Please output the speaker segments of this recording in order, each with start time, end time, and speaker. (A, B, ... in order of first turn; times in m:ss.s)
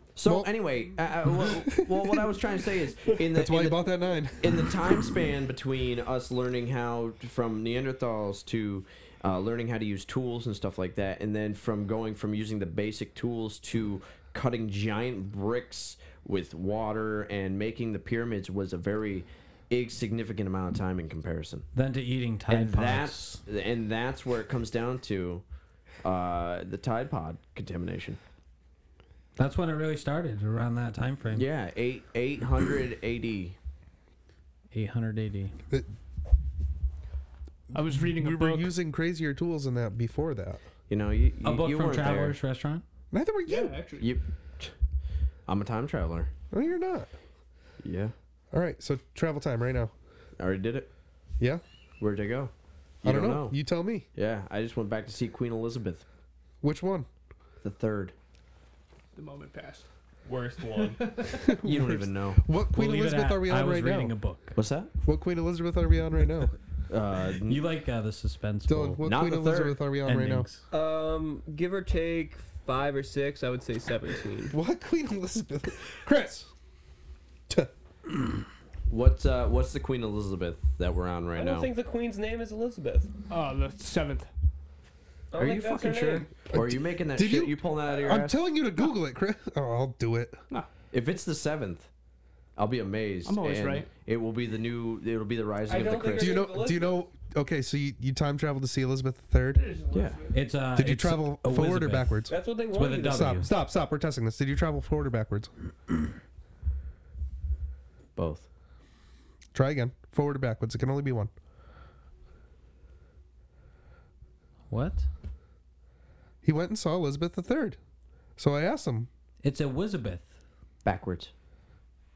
0:00.2-0:21.7 A
0:00.2-0:00.5 B
0:01.6-0:02.3 B
0:03.2-0:05.2 B
0:21.7-0:23.4 C
0:22.5-0:25.4 A
0:26.0-0:28.2 A
0:29.4-0:31.5 C
0:31.3-0:33.6 A
0:34.7-0:35.6 C
0:37.7-0:38.7 D
0:37.7-0:40.6 B
0:40.9-0:42.4 A
0:41.4-0:42.8 C
0:43.1-0:43.8 B
0:43.5-0:44.0 D
0:44.0-0:44.7 A
0:45.4-0:46.3 A
0:46.5-0:47.1 B
0:47.8-0:48.1 A
0:48.5-0:49.9 B
0:50.4-0:50.9 A
0:52.0-0:53.6 A
0:53.0-0:54.0 B
0:54.1-0:56.0 A
0:56.6-0:57.1 B
0:57.6-0:58.1 A
0:59.1-0:59.9 D
1:00.2-1:01.0 E
1:01.0-1:01.4 D
1:01.3-1:04.2 B
1:01.4-1:02.4 A
1:02.7-1:04.6 C
1:04.5-1:04.9 A
1:05.0-1:06.5 B
1:06.9-1:07.7 A
1:07.4-1:09.0 C
1:08.7-1:10.5 B
1:09.0-1:09.8 A
1:10.0-1:10.6 C
1:10.7-1:14.6 E
1:14.5-1:16.5 B
1:18.9-1:21.7 A
1:21.4-1:23.1 E
1:23.3-1:24.3 D
1:25.3-1:26.3 E
1:25.4-1:28.4 A
1:26.5-1:30.4 B
1:30.9-1:31.9 A
1:32.6-1:36.5 A
1:33.2-1:33.9 D
1:35.6-1:37.1 E
1:36.2-1:39.7 B
1:39.5-1:40.5 D
1:39.9-1:40.2 A
1:40.3-1:43.5 C
1:40.7-1:42.3 B
1:42.3-1:43.4 E
1:43.0-1:45.5 B
1:48.2-1:48.5 A
1:49.5-1:51.3 B
1:54.7-1:55.0 C
1:56.4-1:57.8 B
1:58.4-1:59.1 B
1:59.4-2:00.4 C
2:00.8-2:01.3 A